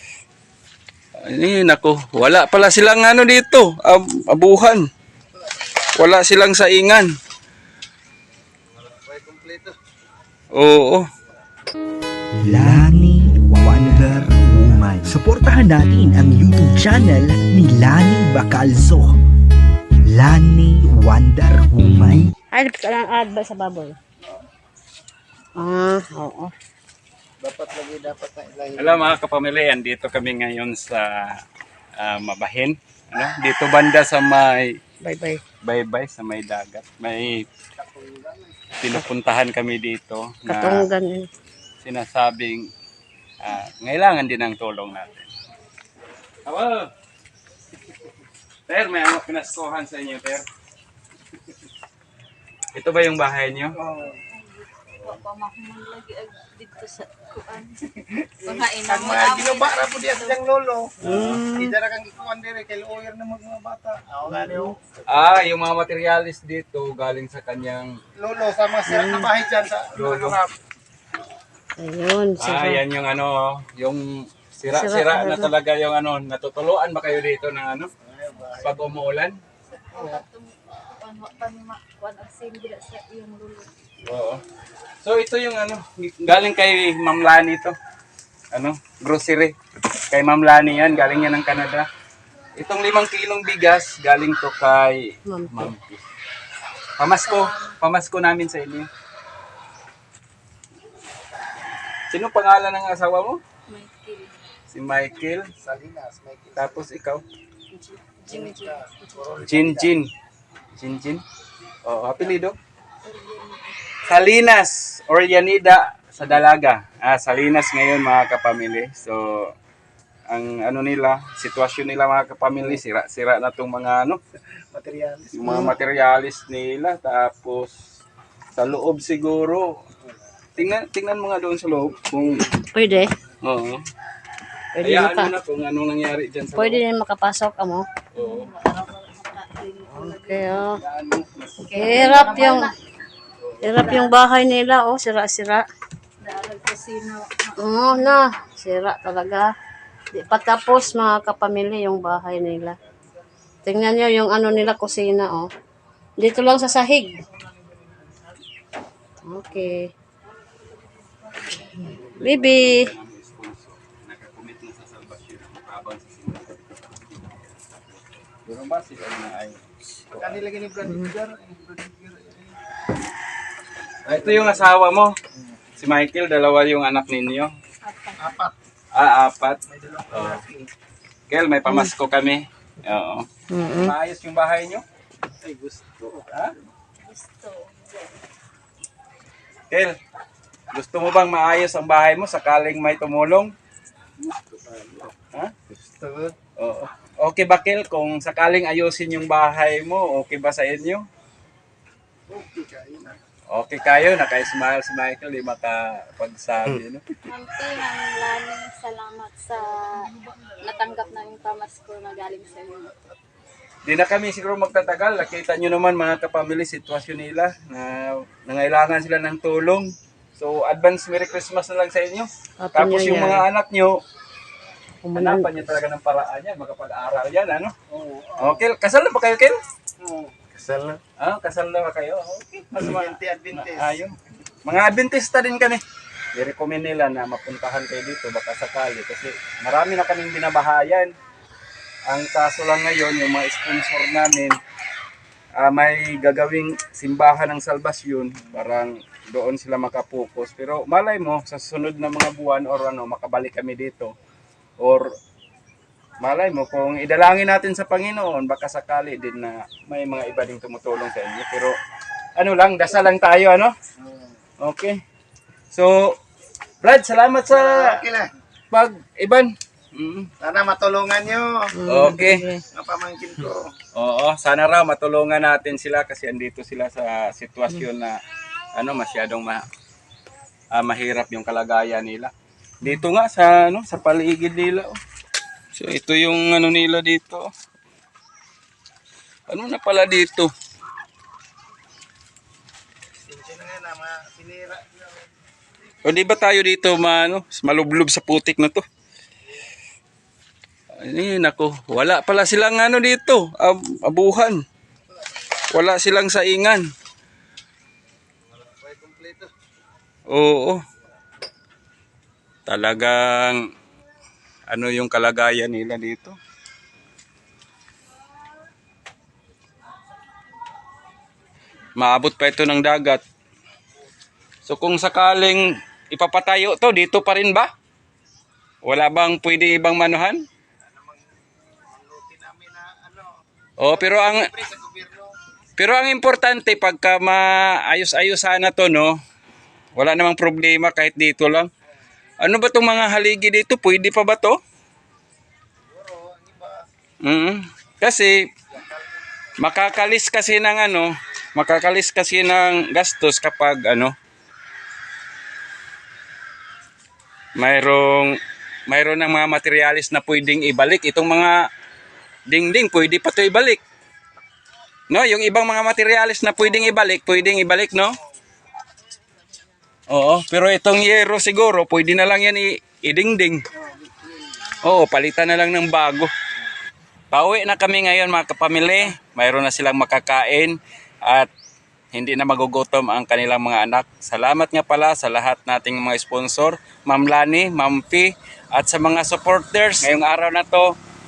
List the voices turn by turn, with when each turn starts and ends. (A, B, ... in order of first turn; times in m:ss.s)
0:01.2-0:04.9 A
0:06.0-0:07.1 A
0:08.8-0:09.7 B
0:10.5-0:11.1 A
0:12.4-0:19.2 C
0:20.0-0:22.3 C
0:22.5-0:24.0 D
0:25.6-0:26.5 D
0:27.4-0:29.1 B
0:28.8-0:31.4 A
0:32.0-0:34.8 A
0:35.0-0:35.4 D
0:35.6-0:37.4 A
0:37.8-0:38.6 B
0:38.8-0:40.9 A
0:40.4-0:41.3 D
0:41.8-0:42.7 A
0:43.4-0:45.2 A
0:46.4-0:46.9 A
0:48.7-0:50.4 A
0:52.7-0:53.7 A
0:53.8-0:54.2 B
0:54.1-0:57.8 E
0:57.9-1:00.9 B
0:58.4-1:00.4 E
1:01.0-1:01.4 A
1:01.0-1:01.7 D
1:01.5-1:04.8 B
1:04.3-1:04.7 D
1:05.1-1:07.9 A
1:08.2-1:10.6 B
1:08.8-1:09.3 D
1:09.9-1:10.4 A
1:11.8-1:12.8 D
1:12.4-1:17.9 A
1:14.7-1:15.5 D
1:18.0-1:18.8 B
1:18.6-1:19.4 A
1:19.7-1:23.7 E
1:24.0-1:24.4 A
1:25.0-1:27.8 A
1:28.5-1:29.5 A
1:30.1-1:31.8 A
1:32.6-1:36.0 A
1:35.3-1:35.7 D
1:37.0-1:38.9 A
1:37.2-1:37.8 E
1:42.1-1:43.4 A
1:43.7-1:44.4 E
1:44.7-1:45.5 A
1:45.6-1:46.8 B
1:46.6-1:47.2 A
1:47.7-1:49.4 E
1:48.3-1:49.9 B
1:49.4-1:50.1 A
1:50.8-1:51.2 A
1:51.8-1:52.6 A
1:53.0-1:53.9 E
1:54.0-1:59.5 A
2:00.3-2:04.2 A
2:04.7-2:05.7 B
2:05.3-2:07.8 A
2:08.5-2:09.8 A
2:10.5-2:12.5 A
2:12.7-2:13.1 D
2:13.4-2:13.8 A
2:14.7-2:15.3 D
2:14.8-2:16.8 A
2:16.5-2:17.8 D
2:18.1-2:18.5 A
2:18.2-2:20.6 E
2:19.9-2:20.8 D
2:20.8-2:22.6 A
2:21.6-2:22.8 E
2:21.7-2:22.7 D
2:23.4-2:23.7 A
2:23.6-2:25.7 D
2:23.8-2:24.2 E
2:26.2-2:28.1 E
2:27.6-2:29.5 D
2:30.1-2:32.8 D
2:33.6-2:35.5 D
2:36.2-2:37.2 D
2:39.2-2:39.9 D
2:41.6-2:42.9 D
2:41.9-2:47.5 A
2:48.4-2:50.4 A
2:50.2-2:52.6 B
2:50.8-2:51.1 D
2:54.0-2:55.1 A
2:54.2-2:54.6 B
2:55.8-2:57.5 A
2:57.8-2:58.3 E
2:58.2-2:58.5 B
2:58.9-3:00.4 A
2:59.7-3:00.7 B
3:01.3-3:04.8 A
3:03.5-3:03.9 D
3:05.4-3:06.3 B
3:07.0-3:08.2 E
3:09.7-3:10.0 A
3:10.7-3:13.5 A
3:14.2-3:15.1 B
3:15.9-3:16.3 B
3:16.6-3:21.0 A
3:22.3-3:23.2 B
3:23.5-3:27.0 A
3:27.2-3:32.9 E
3:33.8-3:44.0 A
3:42.6-3:43.4 D
3:45.0-3:45.7 D
3:45.1-3:47.7 A
3:47.9-3:48.6 B
3:48.4-3:49.6 A
3:50.0-3:51.0 B
3:51.2-3:55.8 A
3:52.7-3:54.0 B
3:56.3-4:01.1 A
4:02.1-4:04.6 A
4:05.6-4:14.1 A
4:14.8-4:15.0 A
4:16.2-4:21.8 A
4:22.4-4:23.7 A
4:24.6-4:25.0 A
4:25.7-4:26.2 A
4:26.8-4:28.0 A
4:27.5-4:28.3 B
4:28.7-4:30.3 A
4:30.4-4:31.7 B
4:31.8-4:32.6 D
4:31.8-4:32.5 A
4:32.7-4:33.7 B
4:33.9-4:38.2 A
4:38.7-4:39.6 A
4:40.7-4:45.0 A
4:45.7-4:47.5 A
4:49.5-4:50.5 A
4:53.2-4:55.0 B
4:56.0-4:58.8 A
5:01.0-5:04.6 A
5:05.7-5:06.9 A
5:08.6-5:09.5 B
5:10.3-5:10.8 A
5:12.6-5:13.7 A
5:14.7-5:16.4 A
5:22.0-5:23.2 A
5:24.6-5:27.7 A
5:28.8-5:30.4 A
5:30.9-5:33.4 B
5:33.8-5:34.5 A
5:33.9-5:35.3 B
5:35.8-5:39.1 A
5:40.0-5:41.7 A
5:42.4-5:44.6 A
5:45.9-5:46.8 B
5:47.2-5:48.5 A
5:48.7-5:49.2 B
5:49.6-5:54.1 A
5:57.6-6:01.7 A
6:02.5-6:03.8 A
6:05.1-6:08.2 A
6:10.1-6:13.6 A
6:14.8-6:16.3 A
6:17.3-6:21.5 A
6:22.1-6:30.9 A